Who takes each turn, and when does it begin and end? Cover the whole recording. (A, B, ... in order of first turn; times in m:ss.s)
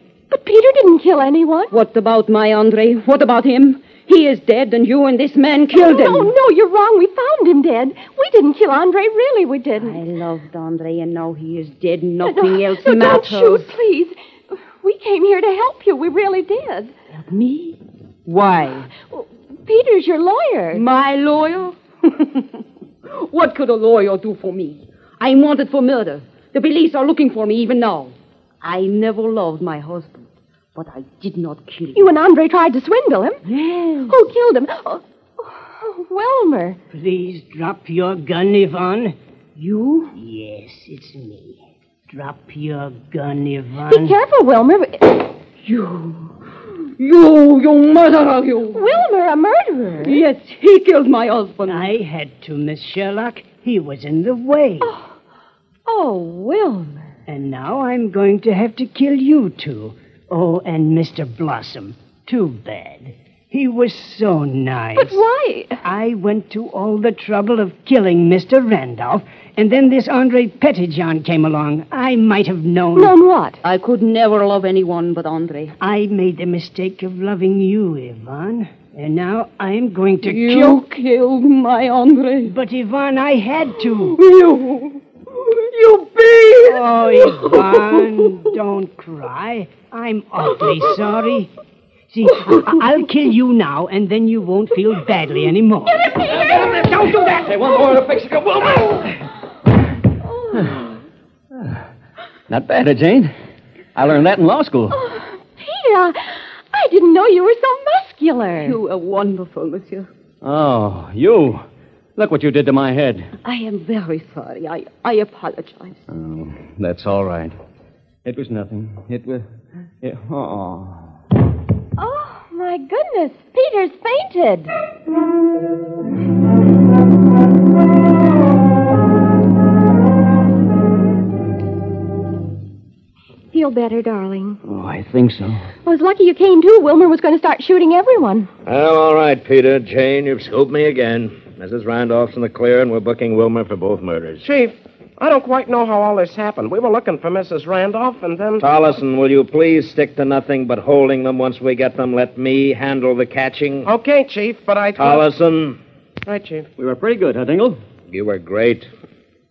0:00.3-0:01.7 A
0:01.7-0:06.3 B
0:05.7-0:10.0 A
0:09.8-0:13.7 B
0:12.2-0:16.9 A
0:17.1-0:18.9 B
0:19.1-0:20.8 A
0:20.7-0:32.1 B
0:31.9-0:33.4 A
0:33.5-0:34.2 B
0:34.1-0:36.8 A
0:36.9-0:39.2 C
0:39.6-0:40.2 B
0:40.1-0:44.2 C
0:43.9-0:45.3 A
0:45.6-0:46.3 B
0:47.0-0:48.9 B
0:48.7-0:50.2 A
0:50.0-0:51.9 B
0:51.7-0:54.9 C
0:54.8-0:55.1 A
0:55.9-0:57.1 A
0:57.3-1:05.2 C
1:04.9-1:05.8 A
1:05.8-1:13.1 C
1:12.9-1:13.6 A
1:13.6-1:15.8 B
1:15.8-1:20.8 C
1:20.2-1:22.6 B
1:22.4-1:24.2 C
1:24.0-1:28.3 B
1:26.6-1:31.5 C
1:32.1-1:36.1 C
1:36.0-1:36.8 A
1:36.3-1:39.2 D
1:40.4-1:40.7 A
1:42.5-1:43.3 D
1:43.9-1:45.0 D
1:44.9-1:48.8 A
1:48.6-1:50.1 B
1:50.4-1:51.6 D
1:52.2-1:53.3 D
1:53.4-1:56.0 B
1:56.1-1:57.6 D
1:58.2-1:59.4 D
2:00.0-2:01.1 D
2:02.0-2:04.7 A
2:13.5-2:14.6 A
2:14.6-2:15.7 D
2:15.9-2:18.5 A
2:18.6-2:24.4 E
2:24.4-2:28.7 F
2:28.6-2:33.9 E
2:33.9-2:35.3 F
2:35.0-2:35.8 E
2:36.3-2:36.7 F
2:36.8-2:37.8 D
2:38.1-2:38.9 E